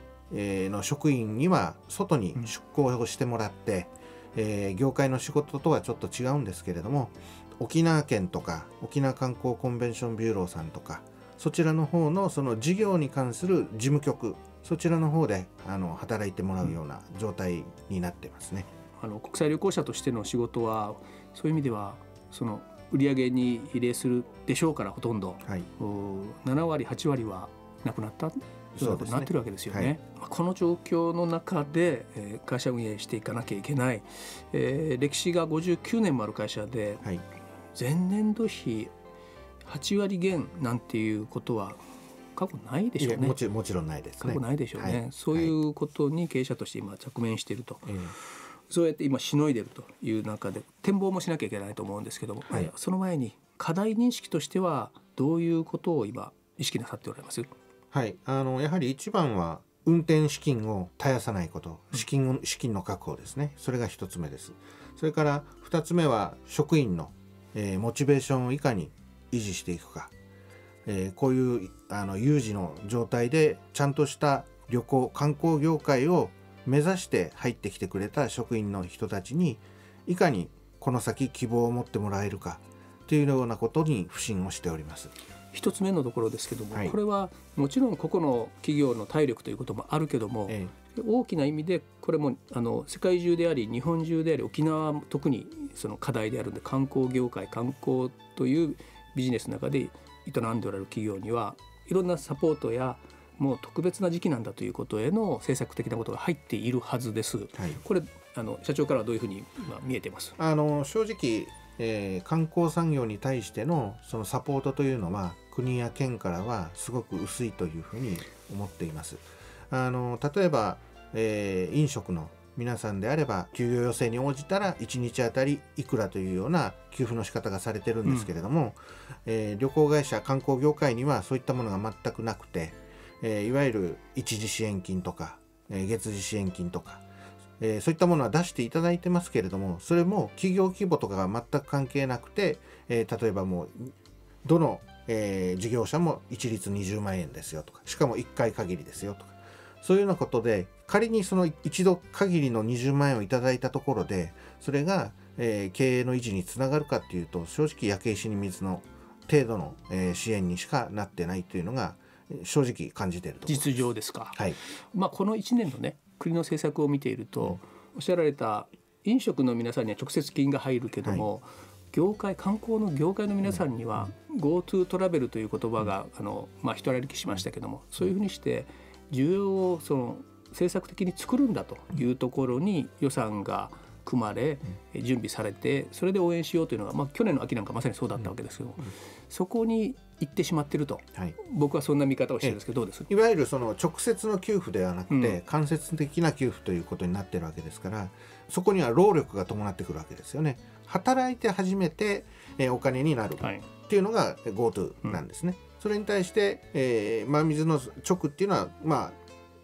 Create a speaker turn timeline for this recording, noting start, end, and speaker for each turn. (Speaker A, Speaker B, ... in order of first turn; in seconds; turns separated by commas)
Speaker A: 0.3-18.7, Speaker B: 19.0-37.0, Speaker A: 28.8-29.9, Speaker B: 37.8-38.9, Speaker B: 39.6-41.8, Speaker B: 42.4-43.4, Speaker A: 43.0-45.5, Speaker B: 44.2-57.5, Speaker A: 47.9-48.1, Speaker A: 57.9-70.1, Speaker A: 70.9-85.1, Speaker B: 85.5-110.4, Speaker A: 90.5-90.7, Speaker A: 110.4-137.0, Speaker A: 137.6-143.9, Speaker A: 144.4-163.8, Speaker B: 163.5-193.1, Speaker A: 192.4-209.2, Speaker B: 195.1-195.4, Speaker B: 203.4-203.7